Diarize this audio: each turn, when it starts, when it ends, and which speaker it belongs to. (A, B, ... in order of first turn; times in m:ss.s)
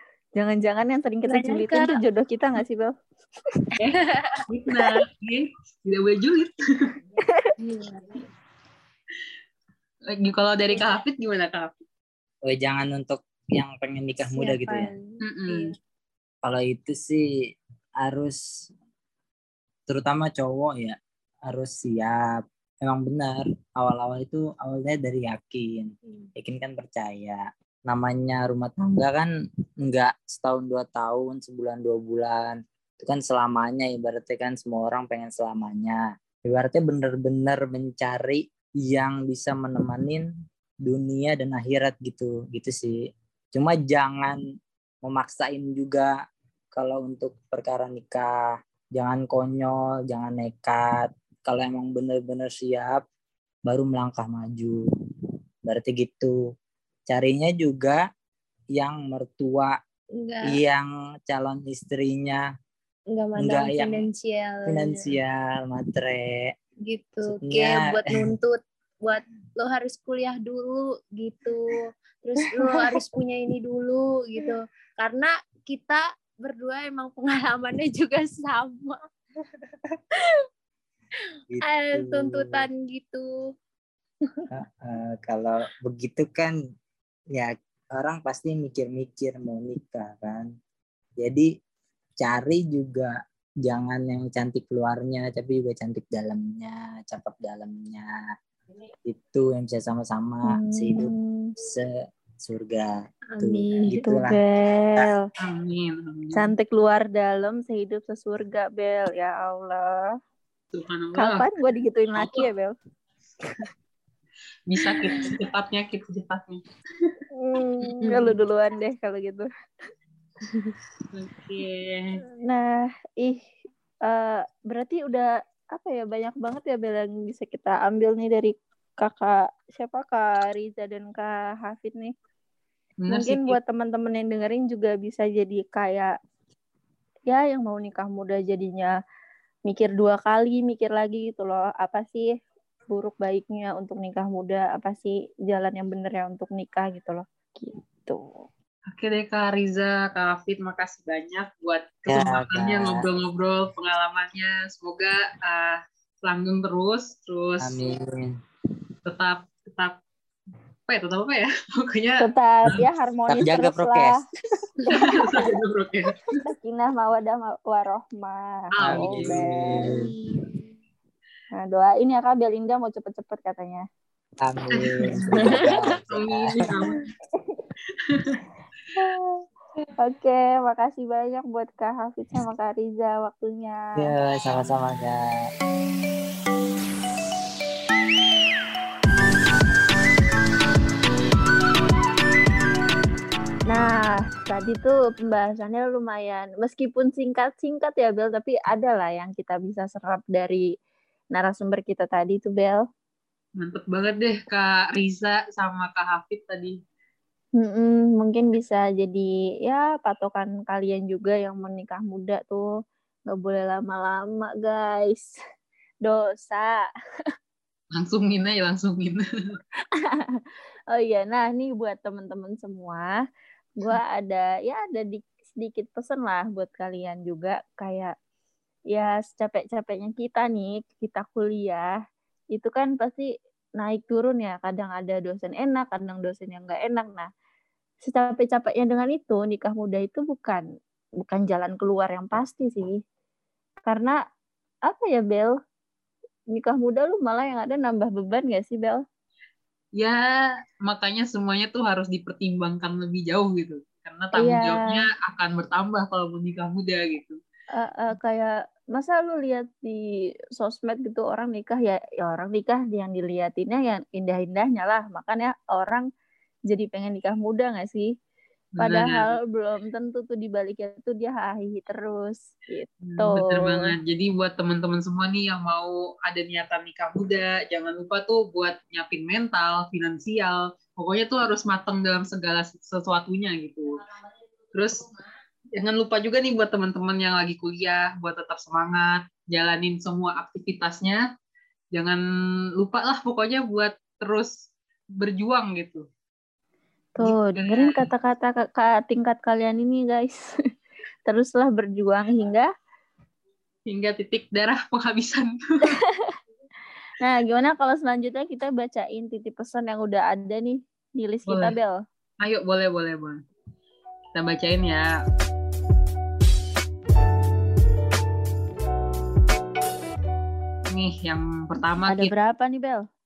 0:00.4-0:02.9 A
0:01.2-0:02.0 B
0:03.8-0:06.9 C
0:04.2-0:05.0 B
0:07.6-0:08.2 B
0:10.1-0:11.8 C
0:12.4-0:14.9 D
0:14.4-0:15.7 B
0:15.2-0:15.7 C
0:16.4-0:17.2 D
0:18.0-0:18.4 D
0:19.9-0:21.0 D
0:21.5-0:22.2 D
0:22.8-0:29.3 D
0:29.8-0:40.2 D
0:40.8-0:43.0 D
0:43.5-0:44.4 D
0:45.0-0:46.1 D
0:46.7-0:48.3 D
0:49.0-0:53.0 D
0:53.7-0:54.8 D
0:55.7-0:56.4 D
0:57.1-0:58.0 D
0:58.7-0:59.8 D
1:00.2-1:00.6 B
1:00.5-1:02.5 D
1:03.1-1:05.1 B
1:03.4-1:04.0 D
1:04.7-1:06.5 D
1:06.9-1:19.0 B
1:07.2-1:08.3 D
1:20.1-1:20.4 B
1:21.5-1:22.6 D
1:21.6-1:23.3 B
1:24.5-1:26.6 D
1:27.3-1:30.5 D
1:31.2-1:31.5 D
1:32.2-1:38.1 D
1:39.0-1:41.9 D
1:40.5-1:41.5 A
1:42.4-1:44.4 D
1:43.4-1:44.1 B
1:44.0-1:45.2 A
1:45.4-1:46.5 C
1:46.3-1:50.0 A
1:50.7-1:51.4 C
1:51.2-1:52.7 A
1:52.2-1:52.5 C
1:54.7-1:57.1 C
1:57.4-1:59.5 A
2:00.5-2:00.7 B
2:01.1-2:02.1 C
2:02.4-2:03.4 A
2:04.0-2:12.1 A
2:13.0-2:13.6 C
2:13.1-2:16.1 A
2:17.3-2:18.9 A
2:19.7-2:22.3 A
2:22.9-2:28.4 A
2:28.9-2:37.8 C
2:32.1-2:33.0 D
2:37.6-2:38.4 D
2:39.0-2:40.0 C
2:40.9-2:42.3 C
2:42.2-2:44.2 A
2:43.3-2:44.2 D
2:44.9-2:45.2 A
2:44.9-2:46.3 C
2:46.4-2:49.8 A
2:48.8-2:49.4 C
2:48.8-2:50.1 D
2:49.8-2:50.6 B
2:51.5-2:53.8 A
2:54.4-2:56.7 D
2:54.7-2:57.0 C
2:55.4-2:55.6 B
2:58.0-2:58.4 C
2:59.0-2:59.4 A
3:00.0-3:04.0 A
3:04.0-3:05.2 D
3:13.7-3:20.7 A
3:21.3-3:22.8 A
3:23.6-3:26.8 C
3:27.6-3:32.7 A
3:33.3-3:35.3 A
3:36.0-3:36.8 A
3:37.9-3:39.6 C
3:39.9-3:40.4 A
3:40.9-3:43.2 A
3:43.8-3:48.1 A
3:48.9-3:51.9 A
3:52.5-3:53.3 A
3:53.8-3:57.3 A
3:58.0-4:00.6 A
4:01.2-4:03.0 A
4:03.9-4:04.2 A
4:04.9-4:05.5 A
4:06.5-4:09.0 A
4:10.0-4:17.4 C
4:14.3-4:15.0 A
4:17.8-4:20.0 A
4:20.6-4:26.0 A
4:26.7-4:28.1 A
4:28.8-4:29.3 C
4:28.8-4:33.9 A
4:33.0-4:44.0 C
4:44.7-4:45.0 C
4:45.8-4:51.2 C
4:51.9-4:52.2 C
4:52.8-4:54.5 C
4:55.2-4:56.0 C
4:57.2-5:00.4 A
4:57.2-4:58.1 C
5:01.3-5:02.7 A
5:03.9-5:06.0 C
5:07.2-5:12.0 A
5:11.5-5:11.7 C
5:12.4-5:13.4 C
5:14.3-5:15.1 C
5:20.9-5:22.3 C
5:22.1-5:23.0 A